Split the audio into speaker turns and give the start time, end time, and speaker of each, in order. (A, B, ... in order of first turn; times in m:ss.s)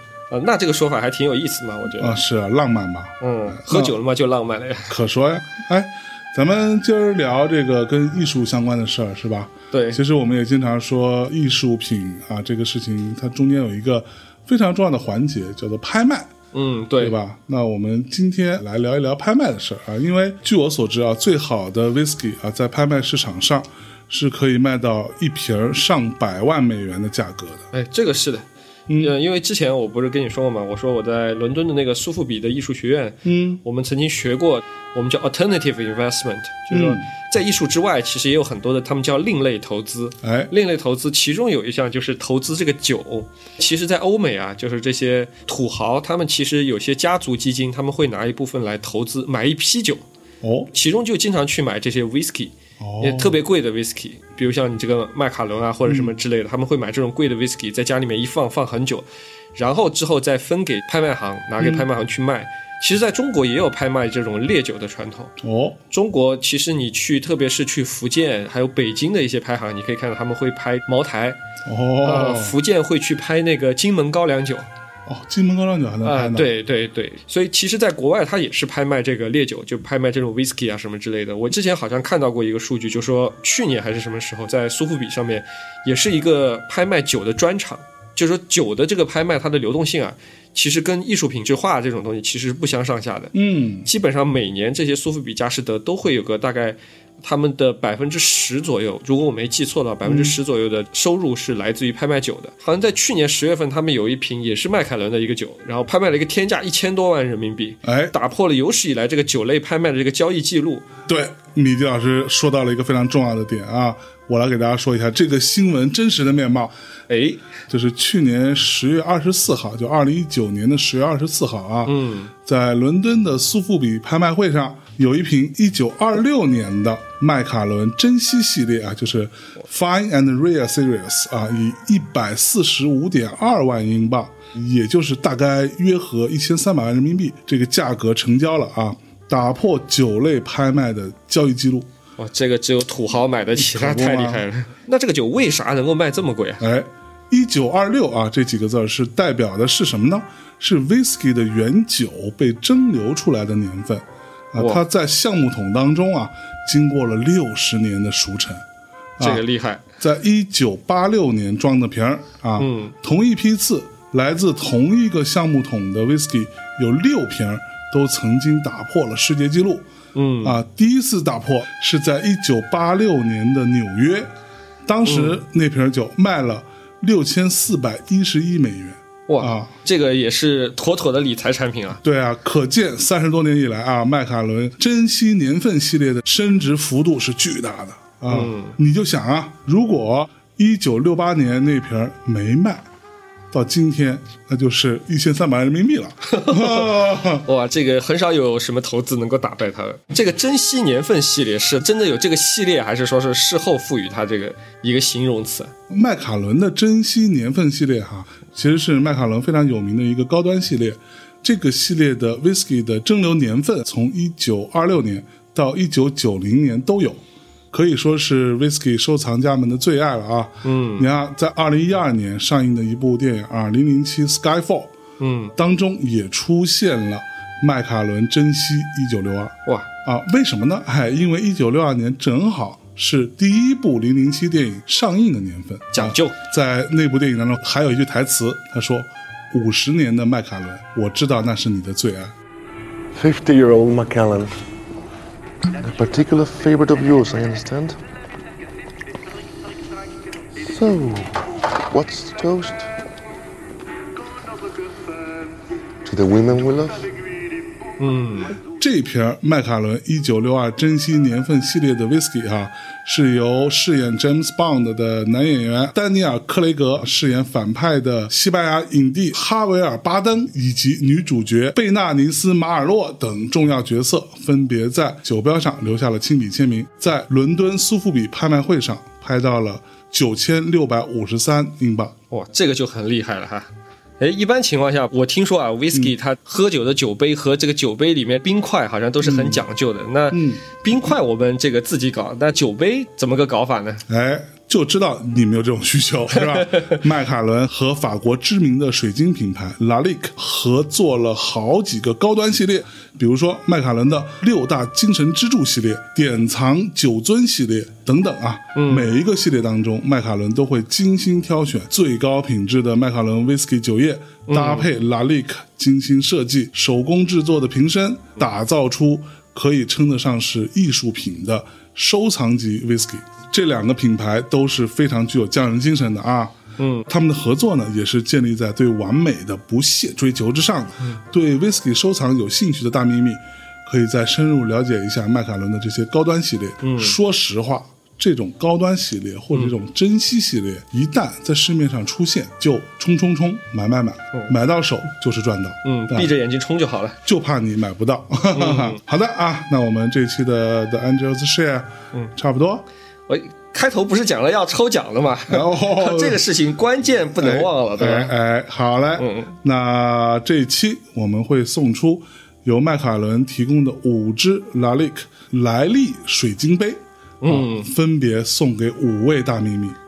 0:00.3-0:02.2 A
0:02.0-0:04.0 B
0:03.2-0:04.9 A
0:04.9-0:16.3 B
0:09.7-0:10.0 A
0:16.5-0:17.1 A
0:17.0-0:27.7 B
0:27.7-0:28.4 A
0:28.9-0:29.1 B
0:29.0-0:50.0 A
0:33.2-0:33.6 B
0:36.7-0:37.0 B
0:40.2-0:40.5 B
0:50.4-0:50.7 B
0:50.7-1:05.3 A
0:52.8-0:53.4 B
0:55.8-0:56.1 B
1:01.6-1:01.9 B
1:05.4-1:05.8 B
1:05.9-1:11.4 A
1:11.6-1:12.6 B
1:12.0-1:14.7 A
1:15.0-1:16.5 B
1:16.0-1:50.9 A
1:33.3-1:33.9 B
1:40.0-1:40.3 B
1:47.8-1:48.1 B
1:51.1-1:56.7 B
1:57.1-1:57.4 A
1:57.7-2:21.9 B
2:01.8-2:02.3 A
2:22.2-2:26.6 A
2:23.6-2:24.4 B
2:26.6-2:38.6 B
2:34.6-2:34.8 A
2:39.2-2:39.4 B
2:39.2-2:39.8 A
2:40.0-2:49.9 B
2:42.6-2:42.9 A
2:50.1-2:50.6 A
2:50.4-2:54.3 B
2:54.8-2:59.7 B
2:55.0-2:55.4 A
2:59.3-3:02.0 A
3:02.0-3:12.8 B
3:08.3-3:08.8 A
3:13.5-3:17.4 B
3:16.3-3:25.7 A
3:25.9-3:44.9 B
3:40.6-3:41.1 A
3:45.2-3:45.5 A
3:45.6-4:02.3 B
3:55.9-3:56.3 A
4:03.1-4:04.6 C
4:05.7-4:08.0 C
4:10.6-4:12.9 C
4:16.0-4:17.1 C
4:18.0-4:18.5 A
4:18.8-4:42.2 B
4:42.3-4:54.0 A
4:49.2-4:49.6 B
4:50.3-4:50.8 B
4:54.1-5:46.3 B
4:56.3-4:57.0 A
5:08.7-5:09.1 A
5:14.5-5:14.9 A
5:26.8-5:27.1 A
5:36.8-5:37.2 A
5:45.8-5:47.2 A
5:47.2-5:52.8 B
5:48.5-5:49.0 A
5:53.3-5:58.3 A
5:55.5-5:56.4 B
5:57.4-6:10.0 B
5:59.2-5:59.5 A
6:07.4-6:07.9 A